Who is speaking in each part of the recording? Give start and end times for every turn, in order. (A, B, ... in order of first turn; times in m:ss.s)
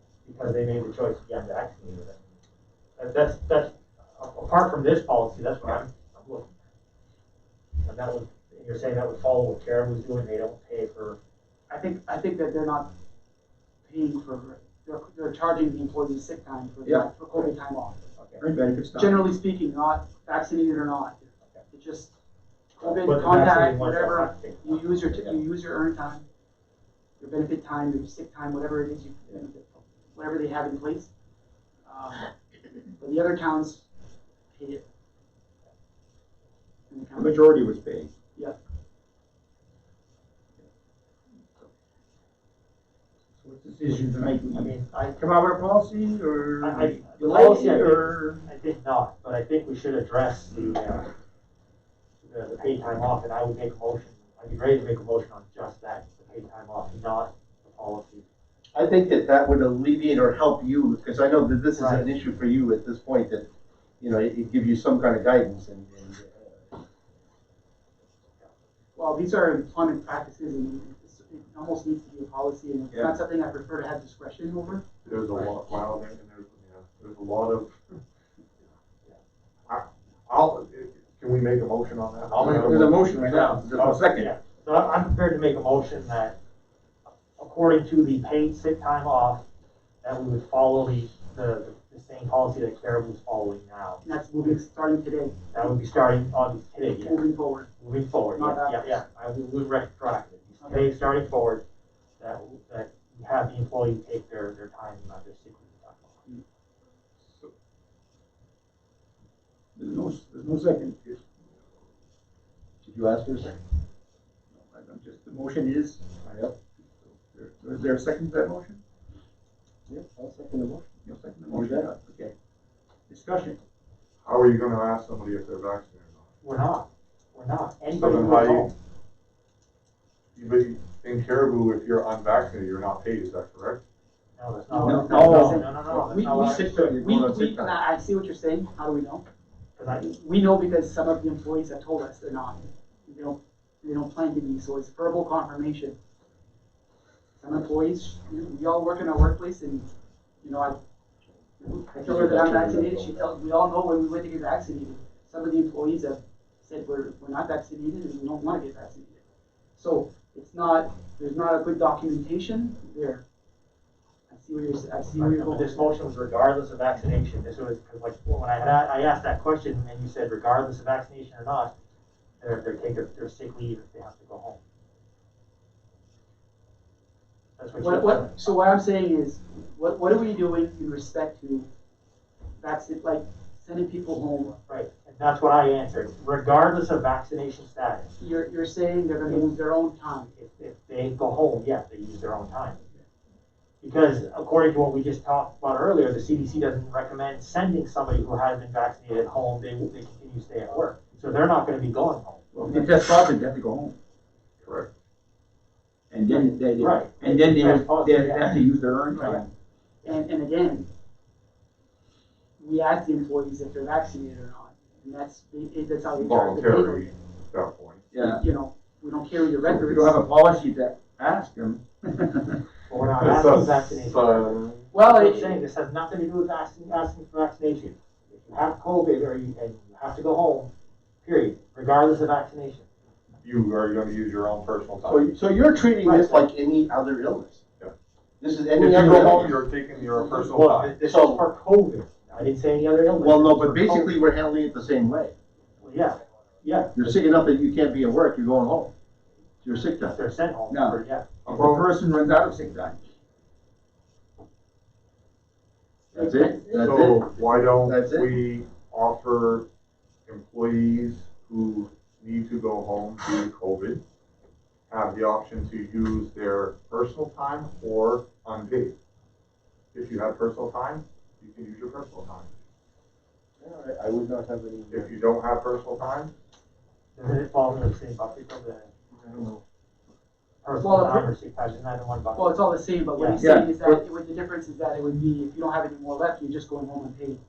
0:00.2-0:02.2 A
0:03.0-0:06.5 A
0:07.8-0:11.2 A
0:11.7-0:12.9 B
0:13.8-0:18.0 B
0:16.8-0:17.5 C
0:18.2-0:19.2 C
0:19.0-0:22.1 B
0:22.8-0:26.2 B
0:22.8-0:25.3 A
0:27.2-0:31.1 B
0:31.8-0:32.3 B
0:33.0-0:33.9 B
0:34.5-0:34.8 B
0:36.9-0:37.4 B
0:37.1-0:38.1 C
0:43.4-0:48.4 C
0:44.5-0:45.2 A
0:46.6-0:51.1 A
0:52.2-0:58.2 A
0:58.8-1:03.5 D
1:01.8-1:02.0 A
1:04.0-1:06.8 D
1:08.9-1:14.9 B
1:12.9-1:13.2 C
1:15.0-1:18.0 E
1:19.7-1:23.6 E
1:22.4-1:24.3 C
1:24.1-1:26.4 A
1:27.4-1:29.4 A
1:30.0-1:34.0 A
1:34.0-1:35.4 B
1:35.5-1:37.2 A
1:36.8-1:37.7 B
1:37.8-1:41.6 A
1:38.3-1:39.0 B
1:40.6-1:40.8 B
1:42.2-1:46.2 A
1:49.8-1:51.2 C
1:52.8-1:53.6 D
1:54.6-1:56.0 C
1:56.2-1:56.5 D
1:57.3-1:58.8 C
1:59.9-2:00.9 D
2:01.0-2:02.3 C
2:01.5-2:01.9 D
2:03.1-2:03.6 C
2:04.2-2:06.3 E
2:06.4-2:08.7 A
2:07.9-2:08.7 E
2:10.3-2:13.8 E
2:14.3-2:17.0 A
2:14.7-2:19.3 B
2:14.8-2:15.6 C
2:15.9-2:17.8 D
2:19.8-2:20.1 A
2:20.0-2:26.0 B
2:27.4-2:29.9 B
2:30.4-2:30.8 B
2:31.6-2:39.2 B
2:31.9-2:33.2 D
2:39.7-2:43.2 B
2:44.3-2:45.9 B
2:45.1-2:51.7 A
2:52.4-2:54.6 A
2:57.6-2:58.4 A
2:57.8-3:01.7 B
3:02.6-3:04.6 B
3:04.6-3:08.1 A
3:08.2-3:10.3 B
3:10.3-3:12.8 A
3:13.8-3:22.8 A
3:22.5-3:23.9 C
3:24.6-3:24.9 E
3:26.1-3:29.5 C
3:26.3-3:29.4 A
3:30.0-3:30.9 B
3:32.6-3:37.1 B
3:36.2-3:38.0 E
3:38.1-3:38.4 C
3:38.3-3:40.2 B
3:39.6-3:42.6 C
3:42.9-3:50.7 A
3:43.2-3:44.9 E
3:44.9-3:45.5 B
3:51.2-3:52.8 A
3:53.4-3:55.3 E
3:55.0-3:57.6 D
3:56.0-3:56.5 A
3:58.4-3:59.6 D
3:58.8-4:00.9 E
4:00.0-4:04.2 A
4:01.0-4:01.4 D
4:03.2-4:05.3 D
4:05.8-4:07.1 A
4:06.9-4:08.9 D
4:09.6-4:10.2 D
4:09.9-4:11.3 A
4:10.7-4:13.0 C
4:11.4-4:11.8 E
4:16.1-4:18.4 D
4:16.7-4:19.7 E
4:20.3-4:24.0 E
4:24.9-4:29.0 E
4:29.9-4:32.5 E
4:33.6-4:35.1 D
4:34.9-4:36.3 E
4:37.1-4:38.9 A
4:39.1-4:39.6 D
4:40.6-4:43.5 A
4:40.8-4:41.3 B
4:42.3-4:47.4 B
4:43.4-4:44.0 C